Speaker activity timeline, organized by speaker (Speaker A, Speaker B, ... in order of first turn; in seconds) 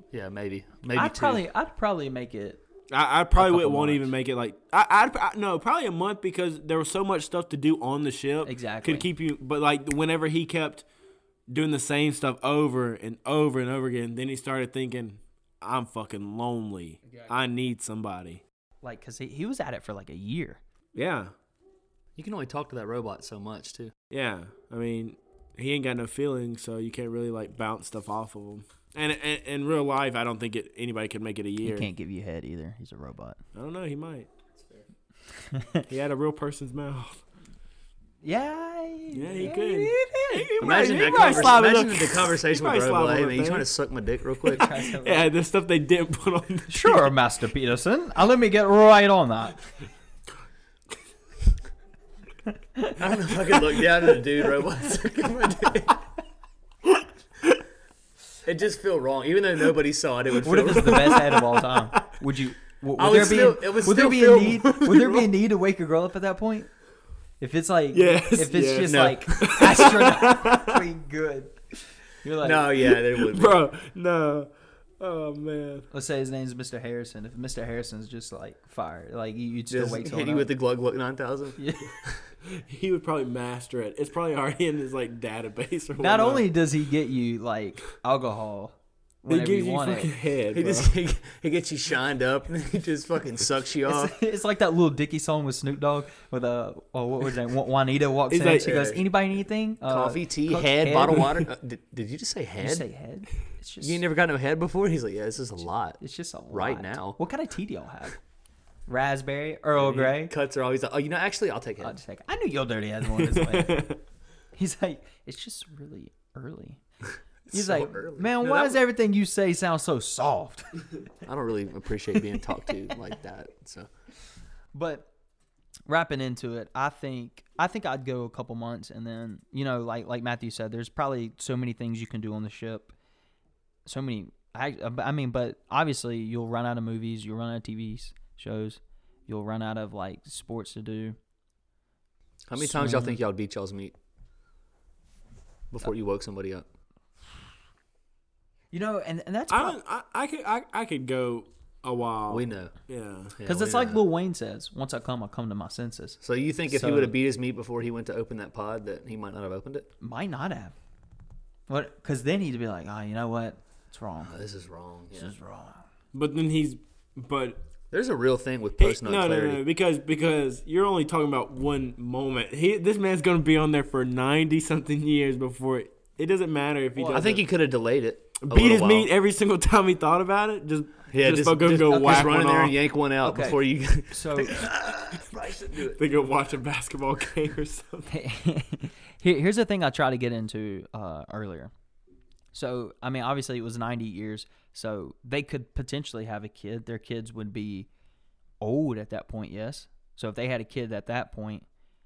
Speaker A: 0.1-1.4, 22.2-23.9, 40.6-44.7, 53.0-56.0, 58.4-61.2, 63.0-64.7, 68.8-69.5, 72.4-73.6, 79.7-82.2, 90.5-94.2, 98.6-99.1, 99.8-102.8, 103.8-106.0, 106.5-107.2, 109.8-112.0, 117.5-118.4, 121.2-123.9, 142.5-143.9, 145.7-146.7, 152.3-152.7, 153.3-154.0, 156.2-159.9, 164.2-165.3, 167.9-169.6, 177.1-179.1, 181.1-186.0
Speaker B: 0.9-2.6, 3.4-4.1, 8.4-9.1, 18.8-20.6, 31.6-33.4, 35.4-35.9, 38.2-41.7, 44.5-45.3, 46.7-49.6, 60.4-66.7, 67.4-71.6, 72.2-72.7, 75.9-80.5, 81.6-82.0, 86.0-90.1, 93.9-101.4, 102.6-104.0, 106.0-108.2, 108.9-110.3, 111.8-113.9, 114.5-116.8, 117.5-120.9, 124.7-125.1, 125.9-132.9, 133.9-141.2, 142.6-143.2, 148.7-149.8, 153.4-157.1, 160.0-160.8, 161.7-164.4, 165.1-165.8, 176.9-177.3, 181.9-182.2, 183.2-184.7, 188.1-191.7, 192.5-197.9, 198.6-201.7
Speaker C: 2.9-10.8, 11.5-18.4, 20.9-21.3, 24.1-31.9, 33.5-34.8, 35.9-37.2, 39.1-43.7, 44.4-47.2, 60.9-62.0, 64.1-65.3, 67.9-70.8, 72.9-75.9, 82.4-86.5, 89.3-91.0, 98.3-98.8, 113.1-114.0, 118.4-118.8, 149.5-153.3, 166.1-167.6, 168.8-177.4, 178.4-182.7, 185.9-188.1